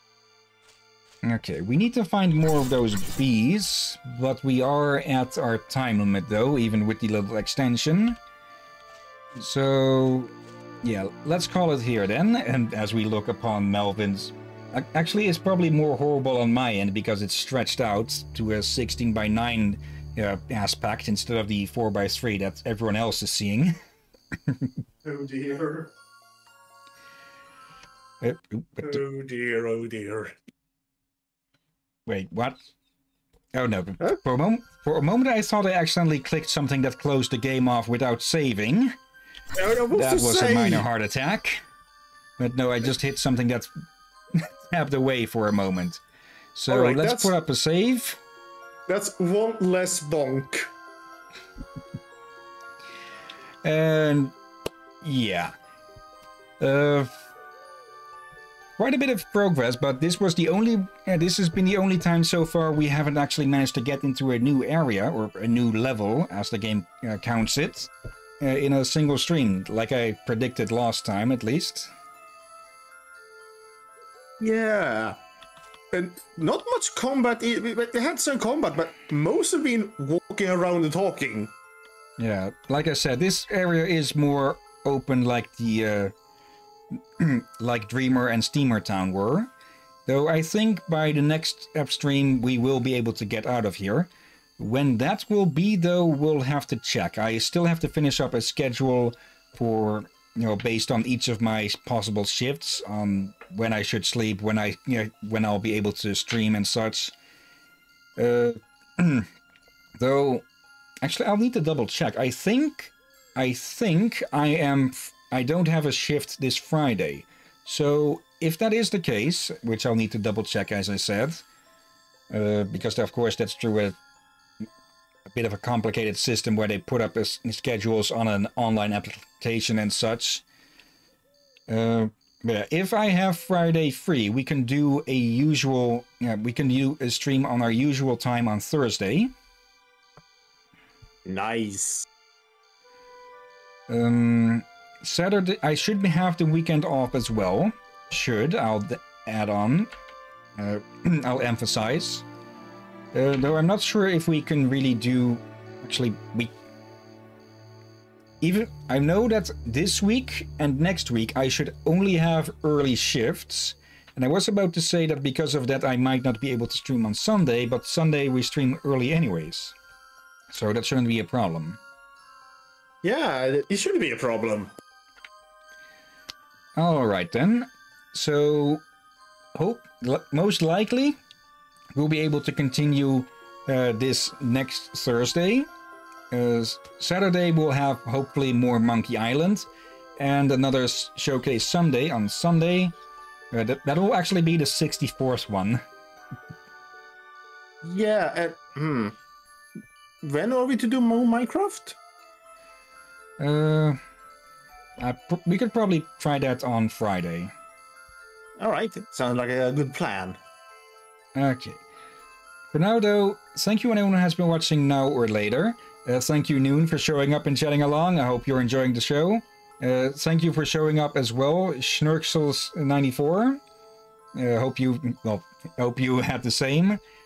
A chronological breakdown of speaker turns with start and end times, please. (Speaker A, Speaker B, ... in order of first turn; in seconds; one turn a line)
Speaker A: 1.2-8.2
Speaker A: 9.4-23.8
Speaker B: 25.0-25.9
Speaker A: 28.2-29.0
Speaker B: 28.8-30.4
Speaker A: 32.1-32.6
Speaker A: 33.5-39.0
Speaker B: 39.5-40.9
Speaker A: 39.9-41.6
Speaker A: 42.4-43.7
Speaker A: 44.3-46.0
Speaker A: 46.5-48.2
Speaker B: 46.7-47.3
Speaker B: 48.9-50.7
Speaker A: 53.6-54.4
Speaker A: 55.0-55.5
Speaker A: 56.6-57.3
Speaker A: 58.8-71.9
Speaker B: 74.4-75.2
Speaker B: 75.9-81.5
Speaker A: 82.2-86.1
Speaker A: 87.2-89.5
Speaker A: 90.1-107.1
Speaker A: 108.2-109.3
Speaker A: 110.0-110.5
Speaker A: 111.0-121.4
Speaker A: 122.3-124.0
Speaker A: 125.3-130.4
Speaker A: 131.7-139.3
Speaker B: 141.2-142.1
Speaker A: 143.9-149.9
Speaker A: 150.6-152.2
Speaker A: 153.1-156.5
Speaker A: 158.4-169.8
Speaker A: 170.5-171.8
Speaker B: 173.0-174.7
Speaker A: 176.8-178.8
Speaker A: 179.6-181.2
Speaker A: 181.9-185.7
Speaker A: 186.3-189.7
Speaker A: 190.2-192.9
Speaker A: 193.5-195.8
Speaker B: 197.8-199.2
Speaker B: 200.2-202.0
Speaker A: 203.4-204.0
Speaker A: 205.0-207.5
Speaker B: 208.6-210.4
Speaker A: 211.3-211.8
Speaker A: 212.7-223.6
Speaker A: 224.3-227.0